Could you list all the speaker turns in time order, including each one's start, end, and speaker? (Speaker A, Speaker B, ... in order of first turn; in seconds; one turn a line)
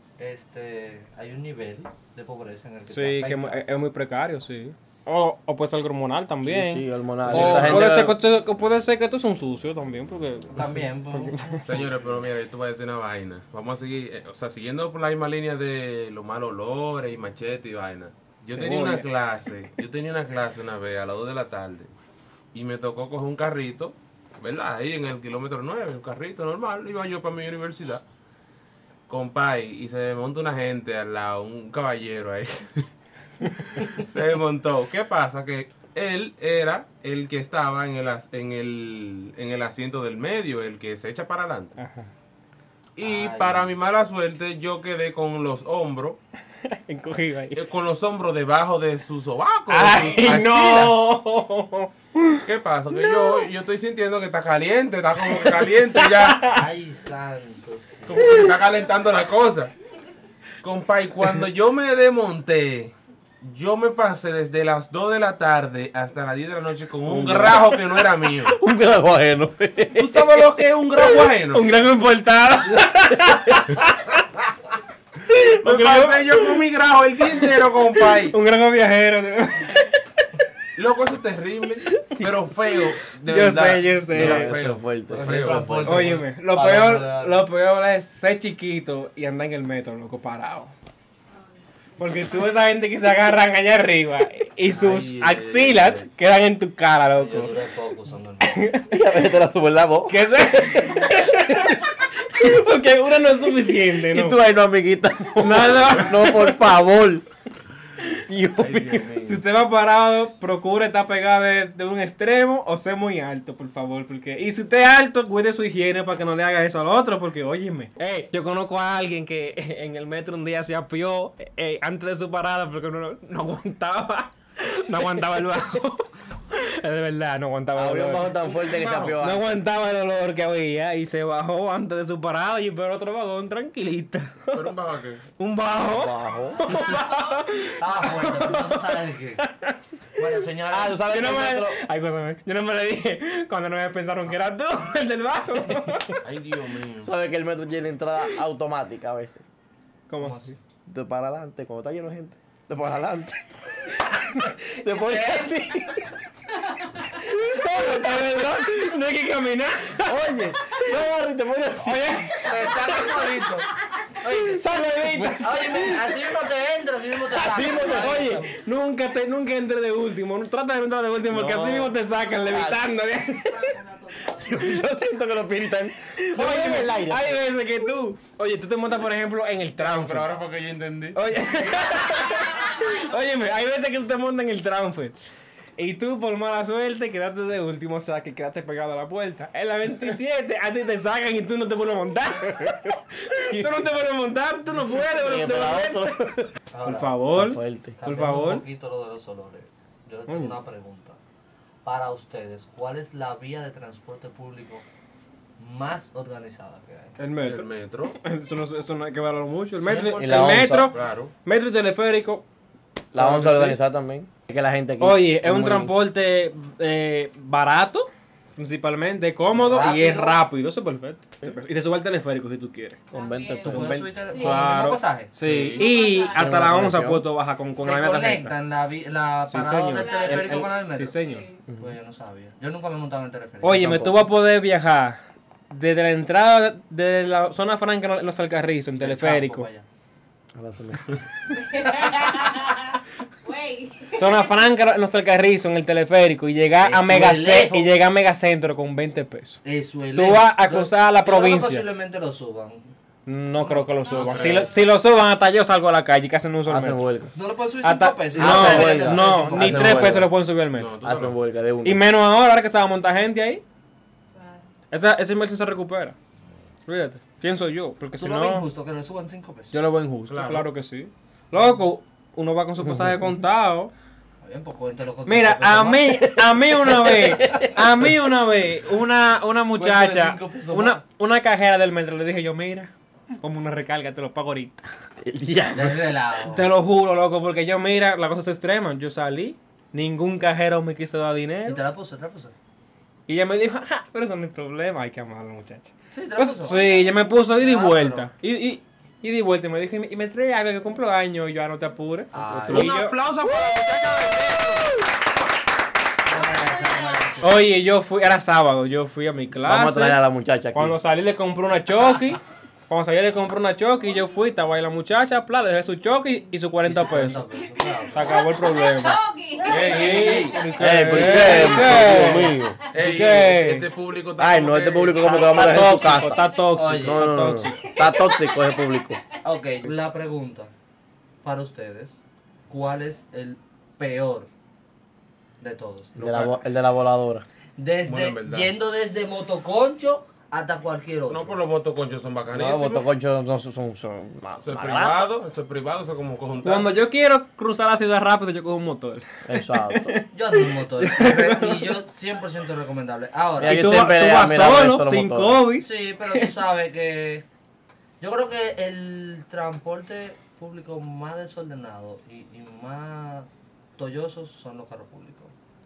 Speaker A: 0.2-3.6
Speaker B: 2.9-11.6
Speaker C: 6.4-8.2
Speaker D: 7.3-7.9
Speaker A: 7.3-7.8
Speaker A: 10.5-12.0
Speaker D: 11.6-21.9
Speaker B: 18.6-19.1
Speaker D: 22.5-28.0
Speaker D: 29.1-32.9
Speaker D: 33.5-41.8
Speaker B: 41.8-42.1
Speaker D: 43.0-46.2
Speaker A: 43.0-43.7
Speaker B: 46.7-47.6
Speaker D: 47.5-51.1
Speaker B: 49.7-52.4
Speaker D: 52.4-56.6
Speaker B: 53.0-53.4
Speaker B: 55.3-56.6
Speaker A: 56.5-58.4
Speaker D: 58.1-59.7
Speaker D: 60.6-68.6
Speaker C: 67.1-67.7
Speaker C: 68.5-70.4
Speaker D: 70.0-71.7
Speaker B: 71.5-74.2
Speaker B: 75.3-76.6
Speaker D: 75.5-78.4
Speaker B: 77.3-80.3
Speaker D: 80.8-86.0
Speaker B: 81.9-84.5
Speaker C: 84.1-86.0
Speaker A: 85.1-87.4
Speaker B: 85.8-90.7
Speaker B: 92.0-97.5
Speaker D: 94.7-96.1
Speaker A: 97.1-98.6
Speaker B: 98.4-98.9
Speaker C: 98.9-100.2
Speaker B: 100.1-104.4
Speaker C: 104.1-107.2
Speaker B: 105.4-106.8
Speaker C: 108.2-109.1
Speaker D: 108.6-109.4
Speaker B: 109.2-134.8
Speaker C: 127.8-129.5
Speaker D: 128.5-129.2
Speaker D: 134.5-135.2
Speaker B: 135.4-139.8
Speaker C: 135.8-136.8
Speaker E: 136.7-137.4
Speaker A: 137.8-139.4
Speaker A: 140.2-141.0
Speaker C: 140.7-141.8
Speaker B: 141.1-146.2
Speaker D: 146.2-147.1
Speaker C: 147.0-149.4
Speaker B: 150.1-150.6
Speaker A: 150.2-150.6
Speaker C: 150.9-153.4
Speaker C: 154.1-156.1
Speaker A: 154.8-155.7
Speaker B: 157.1-160.8
Speaker C: 160.0-162.3
Speaker B: 161.8-163.3
Speaker A: 162.4-163.7
Speaker A: 164.2-164.7
Speaker B: 164.3-166.0
Speaker C: 165.1-165.5
Speaker A: 165.4-168.5
Speaker C: 167.3-168.5
Speaker B: 167.6-173.8
Speaker C: 171.3-171.9
Speaker C: 172.5-172.9
Speaker E: 173.7-174.4
Speaker C: 174.2-177.4
Speaker B: 176.2-180.3
Speaker D: 179.8-181.2
Speaker B: 181.2-185.2
Speaker E: 182.1-183.0
Speaker B: 185.8-196.2
Speaker C: 194.9-196.5
Speaker A: 196.7-197.2
Speaker B: 196.8-198.6
Speaker C: 197.3-198.0
Speaker A: 198.0-201.2
Speaker B: 200.3-200.5
Speaker A: 201.8-204.8
Speaker A: 205.6-207.2
Speaker B: 207.2-212.4
Speaker D: 207.4-208.2
Speaker A: 209.8-210.7
Speaker C: 210.1-210.9
Speaker D: 210.9-211.3
Speaker B: 213.1-213.8
Speaker C: 213.1-215.9
Speaker B: 215.0-223.0
Speaker A: 219.6-220.4
Speaker C: 223.1-224.1
Speaker E: 223.1-224.6
Speaker A: 223.6-225.3
Speaker B: 223.7-228.5
Speaker D: 225.4-225.9
Speaker E: 225.6-226.5
Speaker C: 226.4-227.2
Speaker A: 227.8-231.2
Speaker B: 229.5-231.4
Speaker E: 229.9-231.6
Speaker C: 231.7-231.9
Speaker A: 231.8-233.9
Speaker B: 233.6-235.2
Speaker C: 233.7-234.3
Speaker B: 235.7-239.7
Speaker A: 239.0-239.8
Speaker C: 240.6-241.1
Speaker E: 241.5-244.7
Speaker A: 241.9-242.2
Speaker B: 244.2-249.6
Speaker A: 246.8-247.9
Speaker A: 249.6-252.9
Speaker B: 250.1-251.8
Speaker B: 253.3-257.0
Speaker A: 253.6-254.7
Speaker E: 254.1-254.6
Speaker D: 254.2-254.7
Speaker C: 256.7-257.3
Speaker A: 257.4-260.2
Speaker B: 257.8-260.9
Speaker C: 258.4-260.3
Speaker D: 259.6-260.2
Speaker D: 260.7-261.3
Speaker C: 261.0-262.0
Speaker B: 261.8-263.6
Speaker E: 264.4-264.6
Speaker B: 264.9-266.1
Speaker B: 266.9-268.7
Speaker A: 268.2-269.7
Speaker B: 269.7-273.9
Speaker D: 270.3-270.7
Speaker C: 272.8-273.3
Speaker A: 274.4-276.3
Speaker B: 275.3-282.9
Speaker C: 276.4-278.1
Speaker A: 277.0-277.6
Speaker A: 279.8-281.0
Speaker B: 283.4-284.8
Speaker C: 285.2-286.0
Speaker A: 285.7-286.7
Speaker B: 286.5-291.8
Speaker A: 291.7-292.5
Speaker B: 293.3-303.2
Speaker A: 296.1-298.3
Speaker A: 302.3-302.9
Speaker C: 302.5-302.9
Speaker D: 302.7-304.9
Speaker A: 306.3-307.6
Speaker E: 306.5-307.2
Speaker B: 307.4-310.2
Speaker C: 309.6-311.0
Speaker B: 310.7-317.4
Speaker A: 316.9-318.4
Speaker E: 317.6-321.9
Speaker B: 318.1-319.2
Speaker D: 319.6-320.6
Speaker B: 319.8-323.9
Speaker C: 320.8-322.8
Speaker D: 321.2-325.9
Speaker C: 324.4-329.2
Speaker B: 325.2-327.9
Speaker E: 326.1-326.6
Speaker A: 326.7-327.3
Speaker E: 327.7-329.1
Speaker A: 329.4-330.7
Speaker A: 331.4-332.2
Speaker A: 332.7-334.5
Speaker A: 335.6-336.5
Speaker C: 336.2-337.4
Speaker D: 336.2-336.5
Speaker A: 337.8-341.6
Speaker D: 338.1-338.7
Speaker D: 341.3-343.1
Speaker C: 342.5-345.3
Speaker D: 344.6-347.0
Speaker B: 346.6-351.9
Speaker C: 349.5-350.2
Speaker A: 350.3-353.8
Speaker C: 353.6-355.6
Speaker B: 353.6-356.6
Speaker A: 355.8-357.5
Speaker A: 358.2-365.5